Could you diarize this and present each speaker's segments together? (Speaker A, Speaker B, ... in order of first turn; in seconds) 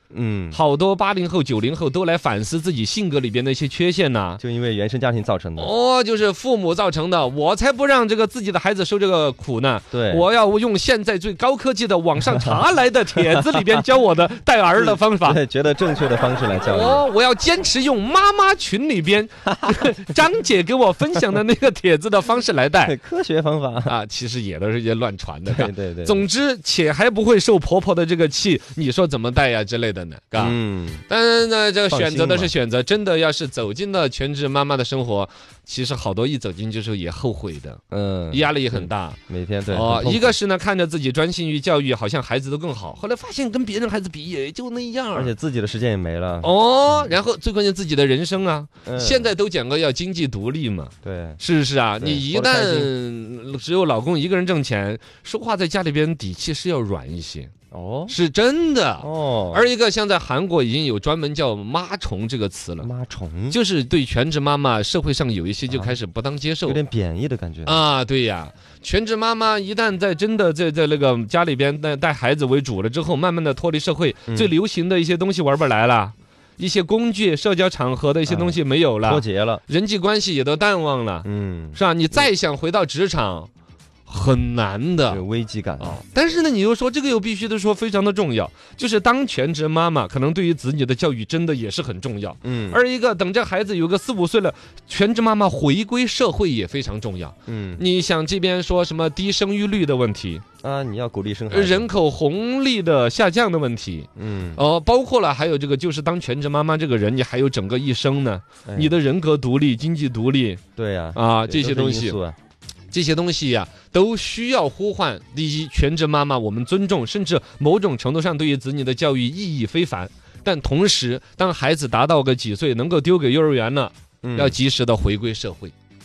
Speaker A: 0.1-0.6, 4.4-5.7, 9.9-10.2, 12.2-12.5, 13.2-13.7, 14.7-17.0, 19.5-19.9, 22.8-23.9, 25.5-26.2, 30.3-31.0, 31.9-32.5, 37.9-40.4, 45.1-46.5, 48.8-49.3, 51.0-51.4, 52.0-52.9, 57.7-58.1, 59.0-59.7, 62.8-63.6, 65.7-65.9, 66.6-67.8, 78.2-79.6, 81.2-82.2, 85.1-86.0, 92.4-92.8, 97.5-97.8, 100.6-101.9, 104.2-104.6, 108.7-108.9, 110.8-112.4, 124.2-124.5
Speaker B: 0.5-4.4, 5.6-15.4, 16.7-22.9, 23.9-39.2, 39.7-45.3, 46.4-57.5, 58.1-62.9, 63.5-66.8, 67.6-83.5, 84.0-85.2, 85.8-100.4, 101.5-110.6, 111.1-112.2, 112.9-125.7